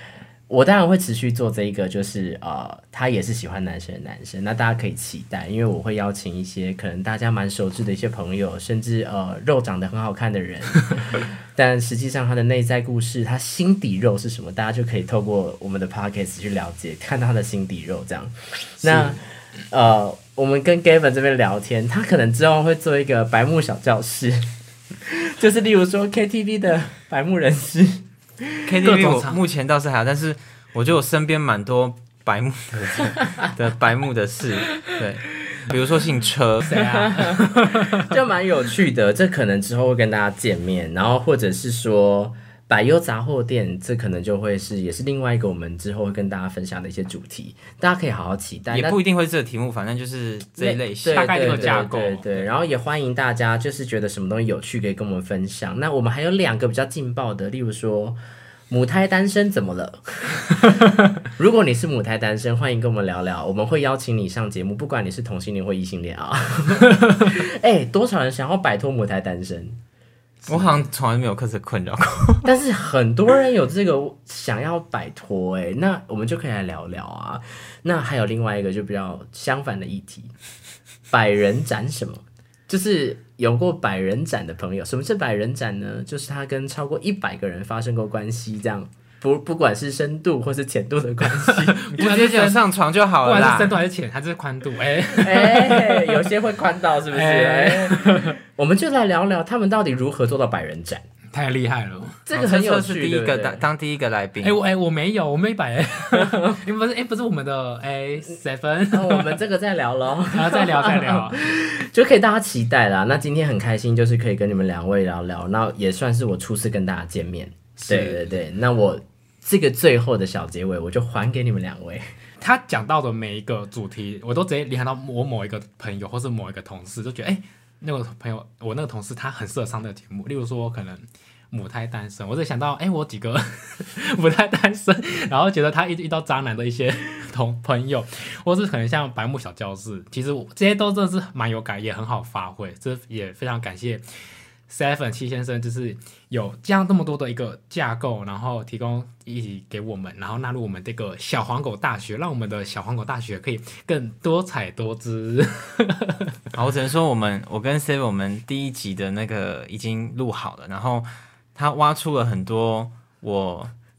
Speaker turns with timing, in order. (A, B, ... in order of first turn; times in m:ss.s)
0:00.5-0:24.5 A
0:18.8-0:19.2 B
0:25.0-0:28.8 A
0:28.6-0:36.8 C
0:28.8-0:29.4 B
0:36.6-0:38.1 B
0:36.8-0:49.0 A
0:48.7-0:51.9 C
0:50.6-0:58.2 A
0:51.1-0:52.5 B
0:58.7-1:00.7 A
1:01.4-1:09.8 A
1:10.4-1:10.8 A
1:10.5-1:12.5 C
1:12.4-1:20.3 A
1:21.1-1:32.1 A
1:31.5-1:32.6 B
1:31.9-1:33.8 C
1:33.2-1:36.3 B
1:35.2-1:41.0 A
1:37.1-1:38.4 B
1:41.3-1:42.2 B
1:42.2-1:43.6 A
1:42.3-1:44.6 C
1:44.4-1:49.4 B
1:46.1-1:46.6 A
1:48.9-2:02.0 A
1:50.3-1:51.4 B
1:57.8-1:58.3 B
2:02.4-2:24.0 B
2:24.7-2:36.2 B
2:36.5-2:43.7 C